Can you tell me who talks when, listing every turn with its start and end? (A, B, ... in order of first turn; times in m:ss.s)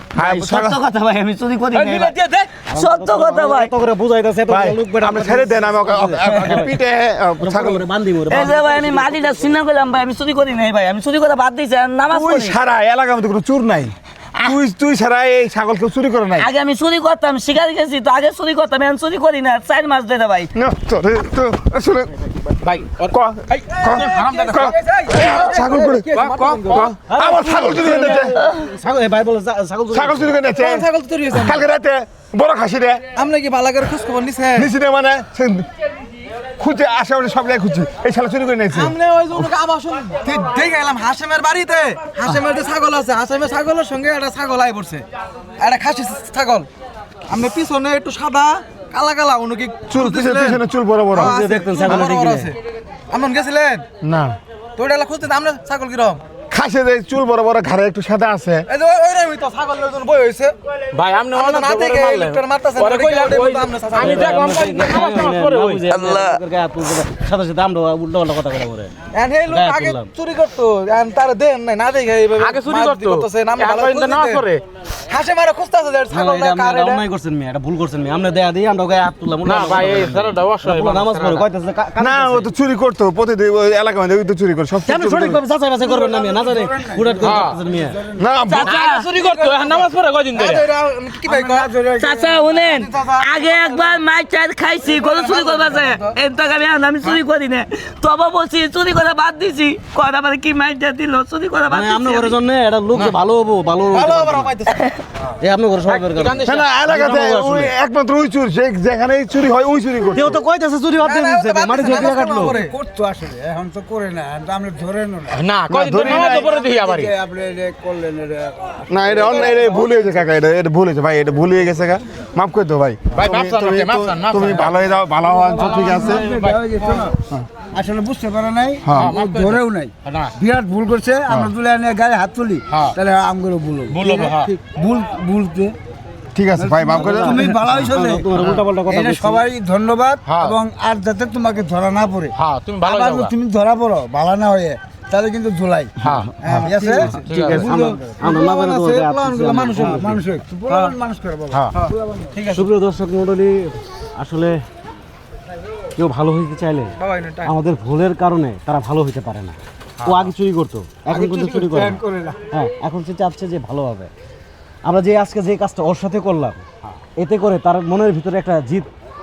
0:00.1-0:00.8 A
0:00.2-0:02.2 B
0:01.7-0:02.5 C
0:02.7-0:06.8 D
0:02.7-0:03.7 B
0:04.5-0:07.8 A
0:06.2-0:06.7 B
0:07.4-0:09.6 D
0:08.3-0:12.6 B
0:12.1-0:16.5 A
0:16.4-0:20.5 B
0:20.5-0:22.1 A
0:22.6-0:23.1 C
0:23.1-0:28.4 A
0:23.7-0:24.6 C
0:24.0-0:26.9 E
0:26.2-0:26.9 C
0:27.1-0:30.3 D
0:29.9-0:33.0 A
0:30.6-0:31.6 E
0:33.1-0:34.7 E
0:34.5-0:35.7 A
0:36.6-0:38.9 A
0:38.7-0:45.0 E
0:45.6-0:46.7 E
0:47.3-0:50.6 E
0:49.9-0:51.4 A
0:51.1-0:52.5 D
0:51.1-0:52.6 E
0:53.1-0:53.8 E
0:54.0-0:54.4 A
0:54.8-0:56.2 E
0:56.5-0:58.6 A
0:58.7-1:00.5 E
1:00.9-1:05.8 C
1:01.3-1:04.2 E
1:03.9-1:08.9 D
1:05.9-1:06.4 B
1:09.1-1:14.5 E
1:09.4-1:10.1 D
1:12.4-1:14.6 C
1:15.1-1:17.0 E
1:16.1-1:22.5 D
1:19.4-1:21.4 C
1:22.0-1:25.4 A
1:24.8-1:28.0 D
1:25.8-1:28.3 F
1:27.2-1:27.6 C
1:28.2-1:28.8 A
1:28.5-1:29.1 B
1:28.6-1:30.7 C
1:29.2-1:31.8 E
1:31.2-1:32.3 F
1:32.0-1:42.4 B
1:32.3-1:34.0 E
1:34.8-1:36.2 E
1:41.7-1:44.5 D
1:43.9-1:44.8 E
1:44.7-1:45.0 B
1:45.4-1:47.7 D
1:45.9-1:46.6 C
1:46.4-1:50.4 A
1:50.1-1:52.6 D
1:51.0-1:52.8 E
1:51.8-2:00.0 F
1:55.3-1:57.1 C
1:55.7-1:56.5 A
1:58.9-2:06.3 A
2:03.1-2:04.9 C
2:05.3-2:07.2 F
2:05.5-2:07.1 C
2:07.7-2:15.7 F
2:08.8-2:09.2 A
2:08.9-2:10.4 C
2:13.9-2:14.6 C
2:16.3-2:17.5 A
2:16.6-2:29.0 F
2:16.9-2:19.4 D
2:18.3-2:18.6 C
2:20.2-2:20.6 C
2:22.4-2:23.3 C
2:26.0-2:27.7 C
2:26.0-2:26.6 A
2:26.7-2:30.1 E
2:27.3-2:30.2 D
2:29.8-2:32.4 F
2:30.7-2:31.0 E
2:31.7-2:32.6 E
2:32.5-2:34.6 D
2:36.0-2:44.1 D
2:37.0-2:37.5 E
2:41.1-2:42.4 F
2:44.8-2:46.6 D
2:47.2-2:48.9 D